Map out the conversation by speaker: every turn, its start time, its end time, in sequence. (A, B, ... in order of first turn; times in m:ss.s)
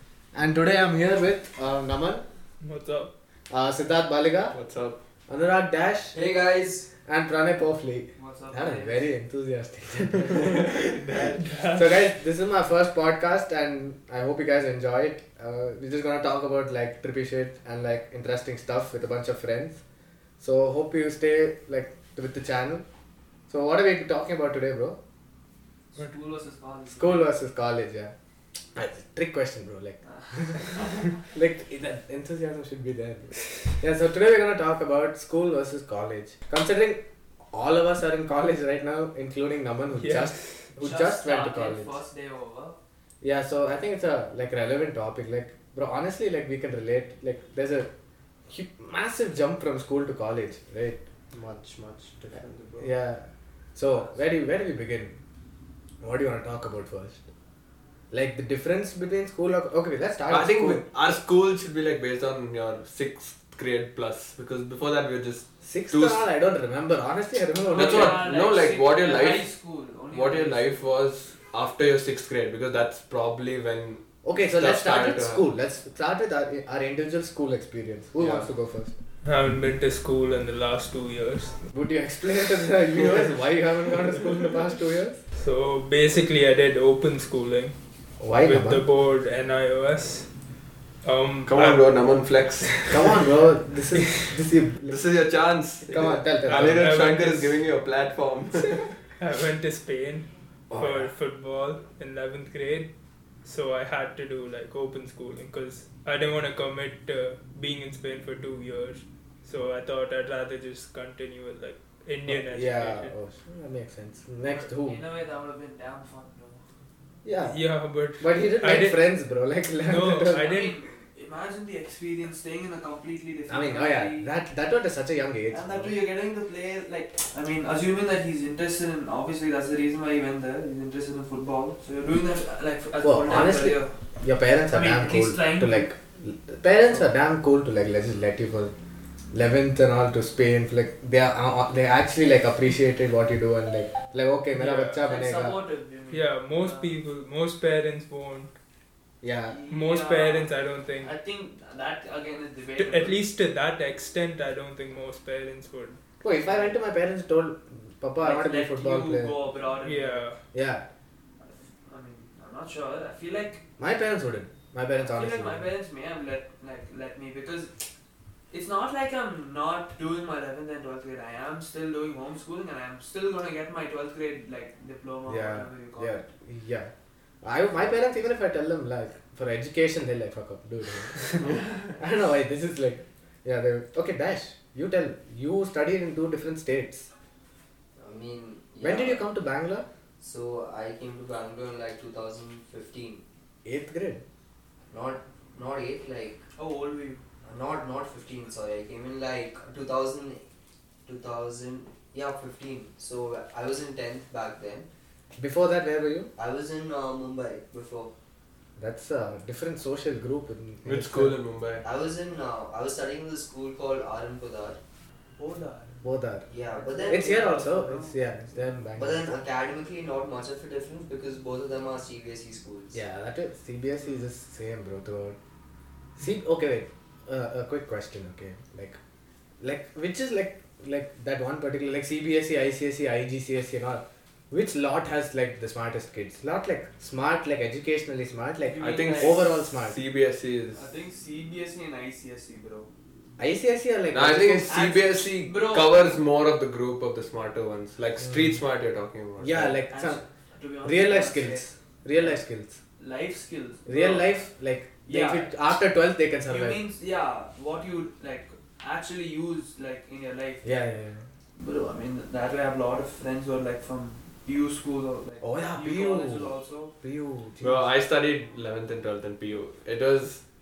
0:00.3-0:02.2 A
0:02.6-0:03.1 B
0:03.5-0:04.5 A
0:04.5-0:05.0 C
0:05.3-0:06.2 A
0:06.1-0:06.9 D
0:07.0-0:19.8 A
0:08.2-0:09.1 E
0:10.2-0:11.4 C
0:11.2-0:11.9 B
0:20.4-0:22.8 A
0:23.5-0:25.0 A
0:26.0-0:27.3 E
0:26.9-0:28.1 A
0:28.7-0:42.0 A
0:30.0-0:31.1 E
0:40.0-0:40.6 B
0:40.8-0:42.8 E
0:43.2-0:47.9 A
0:48.5-0:51.0 A
0:51.3-0:52.9 C
0:52.8-0:55.2 A
0:56.0-0:57.2 A
0:58.1-1:00.8 A
1:00.3-1:06.2 C
1:05.6-1:08.2 A
1:07.7-1:10.9 E
1:07.7-1:09.5 C
1:10.1-1:15.4 C
1:14.2-1:18.9 A
1:18.2-1:18.5 C
1:19.2-1:21.6 B
1:21.7-1:25.2 A
1:25.3-1:27.7 B
1:28.2-1:28.8 A
1:28.4-1:30.3 B
1:31.0-1:31.8 B
1:31.5-1:33.2 C
1:32.9-1:35.0 A
1:34.0-1:34.3 B
1:34.9-1:38.9 C
1:35.9-1:36.9 A
1:36.4-1:37.5 B
1:39.2-1:42.9 B
1:40.7-1:41.1 A
1:43.4-1:53.1 B
1:52.3-1:55.0 A
1:54.4-1:56.6 E
1:57.2-1:57.6 A
1:57.4-1:59.0 B
1:58.2-2:00.4 A
1:59.8-2:00.8 B
2:00.2-2:04.3 E
2:03.5-2:05.9 A
2:05.5-2:13.9 E
2:13.0-2:18.7 A
2:14.7-2:15.9 E
2:19.3-2:25.5 A
2:24.6-2:24.9 B
2:24.7-2:27.0 E
2:26.1-2:28.5 B
2:29.2-2:29.6 A
2:29.5-2:33.2 E
2:29.7-2:31.1 B
2:32.8-2:36.0 B
2:36.2-2:39.3 A
2:38.2-2:40.3 E
2:39.8-2:40.4 B
2:40.5-2:40.8 A
2:41.8-2:43.6 E
2:43.8-2:45.7 A
2:45.1-2:47.7 E
2:48.5-2:56.2 E
2:55.3-2:56.9 A
2:57.4-3:01.4 A
3:01.4-3:01.9 C
3:02.0-3:07.1 A
3:08.0-3:09.2 D
3:08.8-3:09.8 A
3:10.2-3:13.2 D
3:13.6-3:14.2 A
3:14.9-3:16.4 D
3:16.6-3:17.2 E
3:17.4-3:20.4 D
3:21.0-3:24.9 D
3:25.4-3:26.3 A
3:26.4-3:28.1 D
3:28.8-3:31.4 A
3:30.8-3:31.8 C
3:31.8-3:34.8 D
3:35.4-3:36.0 E
3:36.0-3:36.5 A
3:36.5-3:37.4 D
3:36.7-3:38.2 E
3:37.1-3:39.4 A
3:39.0-3:43.0 D
3:42.9-3:45.4 A
3:46.2-3:49.0 A
3:49.6-4:00.0 A
3:58.6-3:59.4 E
3:58.8-4:00.8 C
4:00.7-4:02.9 E
4:03.4-4:04.7 A
4:04.1-4:09.8 C
4:04.7-4:06.1 E
4:09.4-4:10.2 A
4:09.9-4:12.4 E
4:10.8-4:12.8 A
4:13.0-4:14.4 E
4:13.9-4:16.8 A
4:15.0-4:15.6 E
4:16.5-4:20.6 E
4:20.6-4:21.2 A
4:21.6-4:26.9 E
4:25.4-4:27.8 A
4:27.6-4:30.4 C